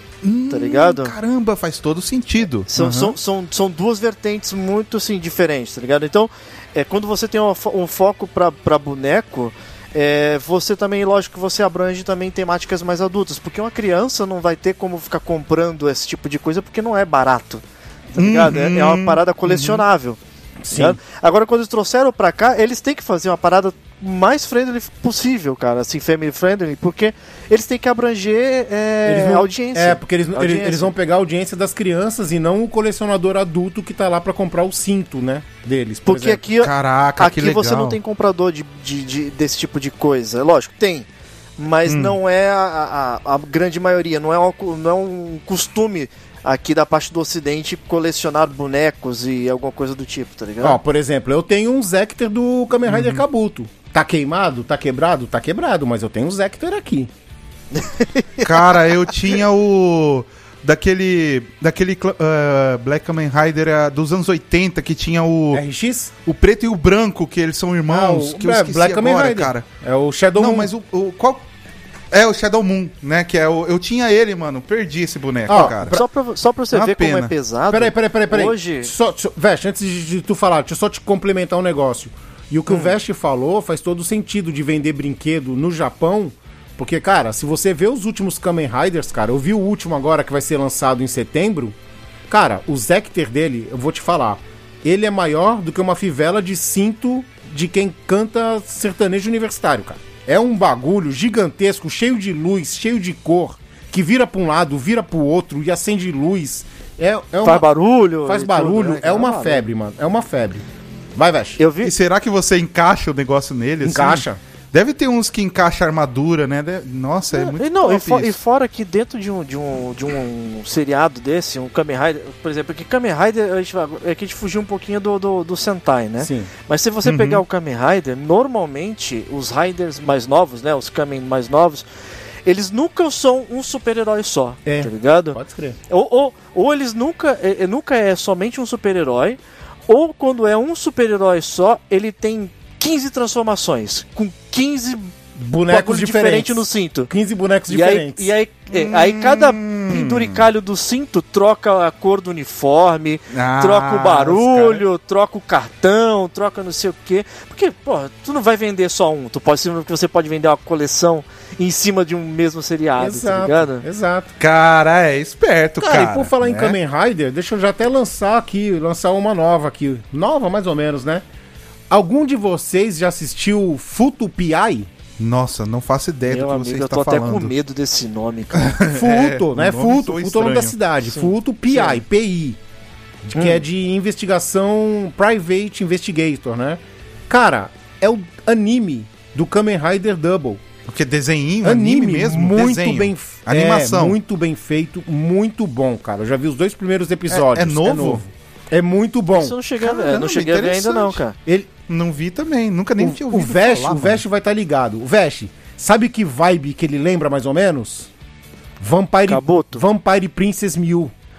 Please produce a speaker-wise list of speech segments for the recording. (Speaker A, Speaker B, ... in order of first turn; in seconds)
Speaker A: 0.2-3.1, 18.2-19.8, 36.6-38.0, 41.9-42.1, 52.9-53.2, 58.4-65.6, 66.2-69.7, 70.3-71.4, 72.1-76.0, 76.7-77.3, 111.8-118.3, 127.0-127.4, 148.7-150.4, 153.3-154.8, 164.4-166.8, 175.2-177.5, 178.6-180.8, 190.9-194.2, 197.3-198.2, 199.8-201.2, 201.9-204.2
Speaker B: 0.5-1.1, 2.7-17.6, 18.1-20.2, 20.7-30.9, 36.0-41.1, 41.6-50.8, 57.7-58.5, 75.5-78.9, 82.7-82.9, 107.4-109.7, 111.6-111.9, 117.3-131.8, 132.4-145.1, 145.7-147.1, 147.7-163.8, 176.3-178.8, 181.1-182.0, 183.4-183.6, 199.3-201.3, 209.3-209.8
Speaker C: 20.6-21.0, 29.0-36.4, 50.6-57.1, 65.5-66.1, 67.9-70.7, 75.5-76.0, 77.7-91.8, 92.3-107.7, 108.2-111.6, 113.8-114.4, 126.2-126.5, 134.7-135.8, 145.4-148.3, 163.0-164.3, 165.8-171.2, 171.9-174.9, 178.9-182.6, 183.2-190.6, 191.6-199.6, 201.4-201.8, 203.0-208.1, 208.8-211.1